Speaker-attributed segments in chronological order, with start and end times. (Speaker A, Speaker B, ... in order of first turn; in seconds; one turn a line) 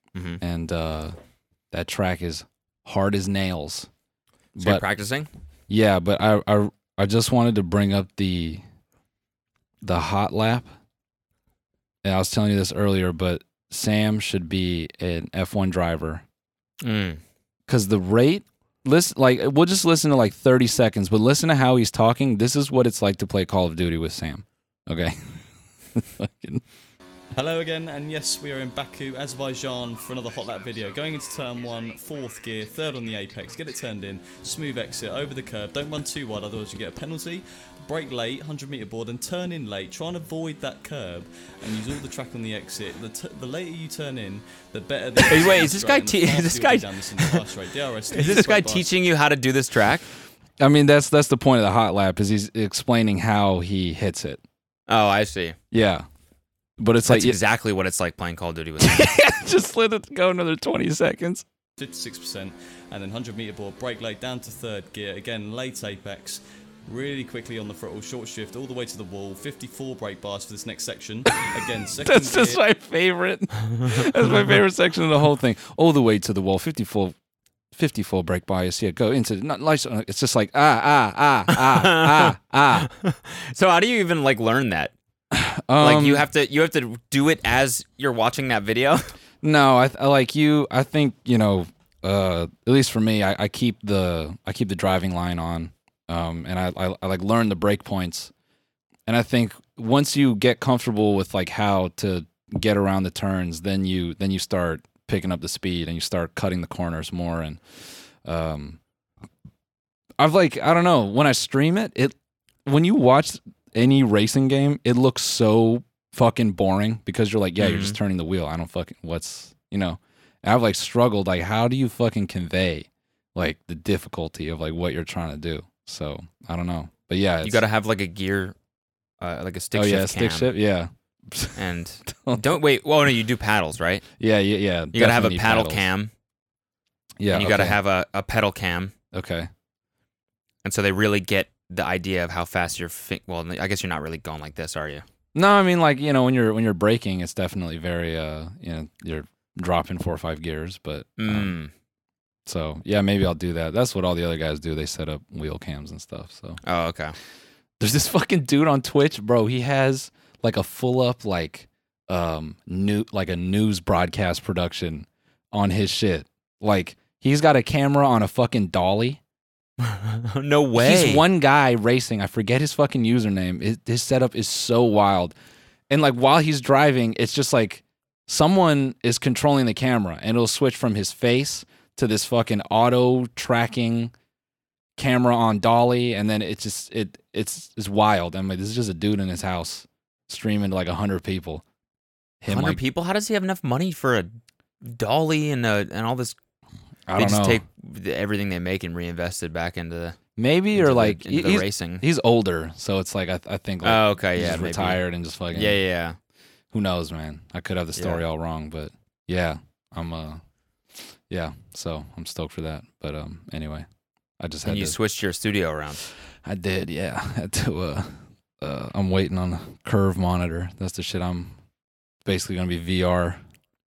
Speaker A: 0.1-0.4
Speaker B: 0.4-1.1
Speaker B: 1.7-3.9
Speaker B: 4.6-4.8
Speaker A: 4.6-5.3
Speaker B: 5.7-8.6
Speaker B: 9.8-10.7
Speaker B: 12.0-16.2
Speaker A: 16.8-17.2
Speaker B: 17.7-26.6
Speaker C: 27.3-48.9
Speaker A: 45.2-47.4
Speaker A: 48.1-50.0
Speaker B: 50.6-54.4
Speaker A: 54.9-55.6
Speaker B: 55.7-56.0
Speaker B: 56.8-57.4
Speaker A: 57.1-59.1
Speaker B: 58.8-61.4
Speaker C: 61.8-72.6
Speaker B: 72.0-77.1
Speaker B: 77.7-82.9
Speaker A: 81.5-84.9
Speaker B: 85.3-86.3
Speaker A: 85.8-89.1
Speaker B: 89.4-98.3
Speaker B: 99.1-107.6
Speaker B: 108.2-108.8
Speaker B: 110.2-127.6
Speaker A: 117.6-118.0
Speaker A: 127.4-128.6
Speaker A: 129.2-130.5
Speaker B: 129.7-132.5
Speaker A: 131.6-134.0
Speaker B: 134.2-135.9
Speaker A: 134.9-136.1
Speaker B: 137.2-137.8
Speaker A: 137.3-138.9
Speaker B: 139.1-139.5
Speaker A: 140.6-145.0
Speaker B: 145.3-151.5
Speaker A: 151.2-151.7
Speaker B: 152.4-156.6
Speaker A: 156.6-157.1
Speaker B: 157.8-169.2
Speaker A: 169.8-171.2
Speaker B: 170.8-175.3
Speaker B: 175.9-184.1
Speaker B: 185.0-191.6
Speaker B: 192.4-192.8
Speaker A: 192.5-196.3
Speaker B: 197.1-197.6
Speaker A: 197.2-200.2
Speaker B: 200.4-205.8
Speaker A: 200.7-202.0
Speaker A: 203.8-205.0
Speaker A: 205.5-206.2
Speaker B: 206.7-210.4
Speaker A: 207.9-208.2
Speaker B: 211.3-213.8
Speaker B: 214.4-214.9
Speaker A: 214.6-216.1
Speaker B: 216.4-221.5
Speaker B: 222.2-223.4